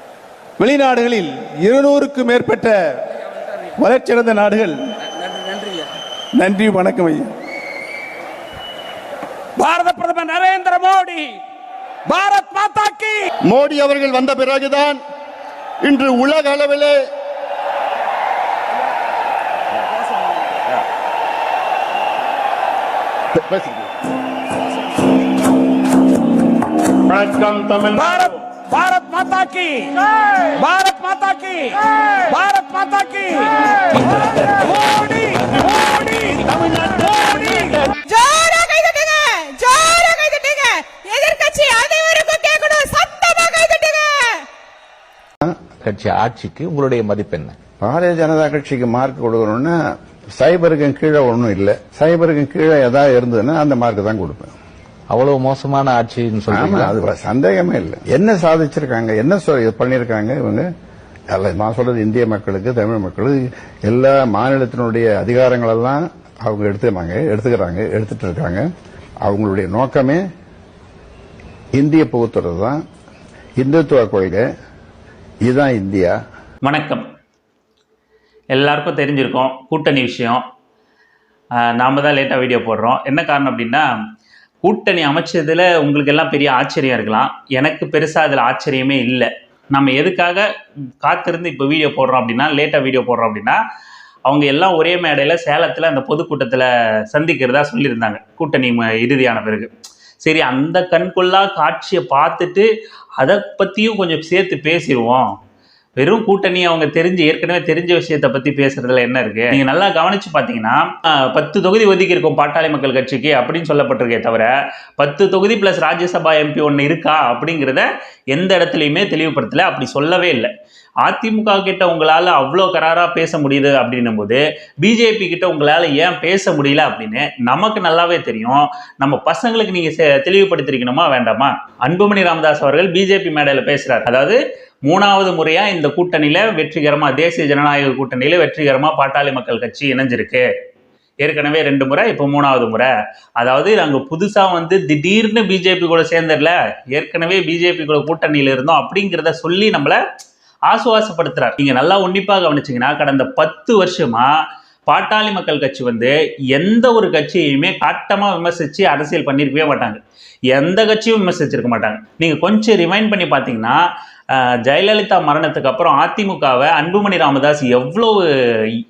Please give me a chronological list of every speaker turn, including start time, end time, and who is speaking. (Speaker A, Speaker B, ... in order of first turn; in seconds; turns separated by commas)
Speaker A: 0.6-2.8, Speaker A: 3.8-4.8, Speaker A: 6.4-7.3, Speaker B: 9.6-11.4, Speaker B: 12.1-13.2, Speaker C: 13.5-15.0, Speaker C: 15.8-17.0, Speaker C: 23.5-23.9, Speaker C: 27.1-28.1, Speaker B: 27.9-37.8, Speaker D: 38.1-44.4, Speaker E: 45.8-47.6, Speaker F: 47.8-49.8, Speaker F: 50.4-54.5, Speaker E: 55.1-56.8, Speaker F: 56.5-60.7, Speaker F: 61.3-68.7, Speaker F: 69.3-70.2, Speaker F: 71.8-72.8, Speaker F: 73.6-74.4, Speaker F: 75.4-76.1, Speaker G: 76.6-77.0, Speaker G: 78.5-80.4, Speaker G: 81.6-83.9, Speaker G: 84.6-90.5, Speaker G: 91.0-93.6, Speaker G: 94.2-99.7, Speaker G: 100.2-105.3, Speaker G: 106.0-120.5, Speaker G: 121.0-140.5, Speaker G: 141.2-150.0, Speaker G: 150.7-154.3, Speaker G: 154.9-163.8, Speaker G: 164.3-168.3